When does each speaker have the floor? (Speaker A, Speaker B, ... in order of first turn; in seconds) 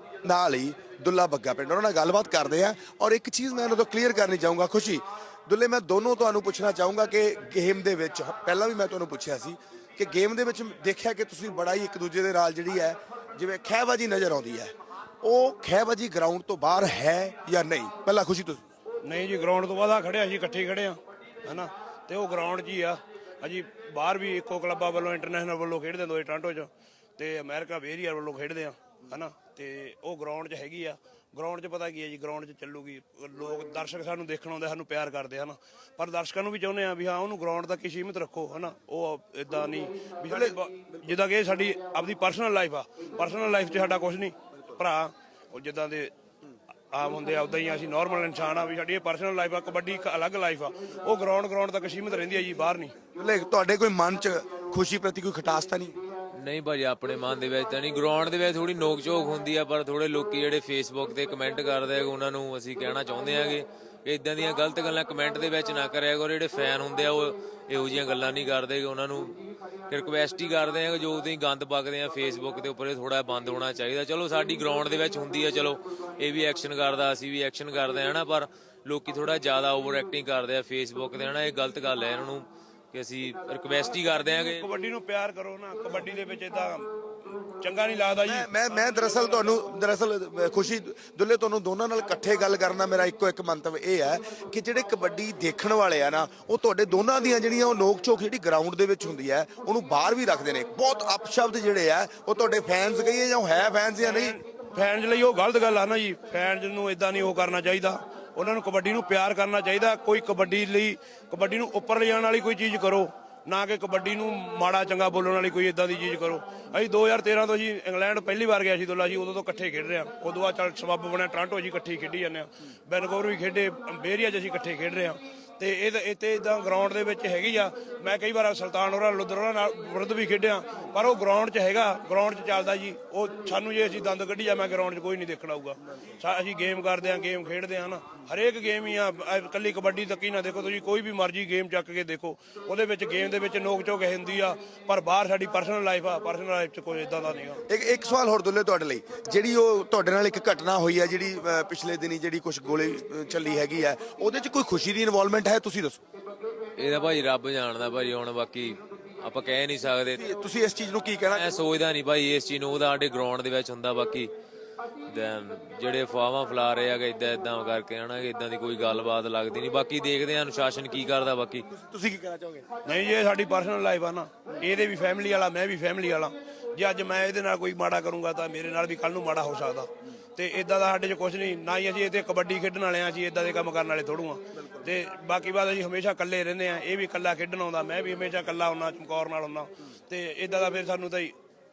Speaker A: 0.2-18.6, 40.3-41.1, 53.1-56.0, 88.2-104.4, 147.7-156.0, 160.1-161.5, 171.7-172.7, 184.6-184.8
Speaker B: 19.0-46.1, 46.9-52.9, 84.5-86.9, 87.4-89.3, 104.0-147.6, 172.8-191.3
Speaker C: 56.4-69.3, 69.9-84.7, 156.8-160.2, 161.3-164.3, 165.1-171.6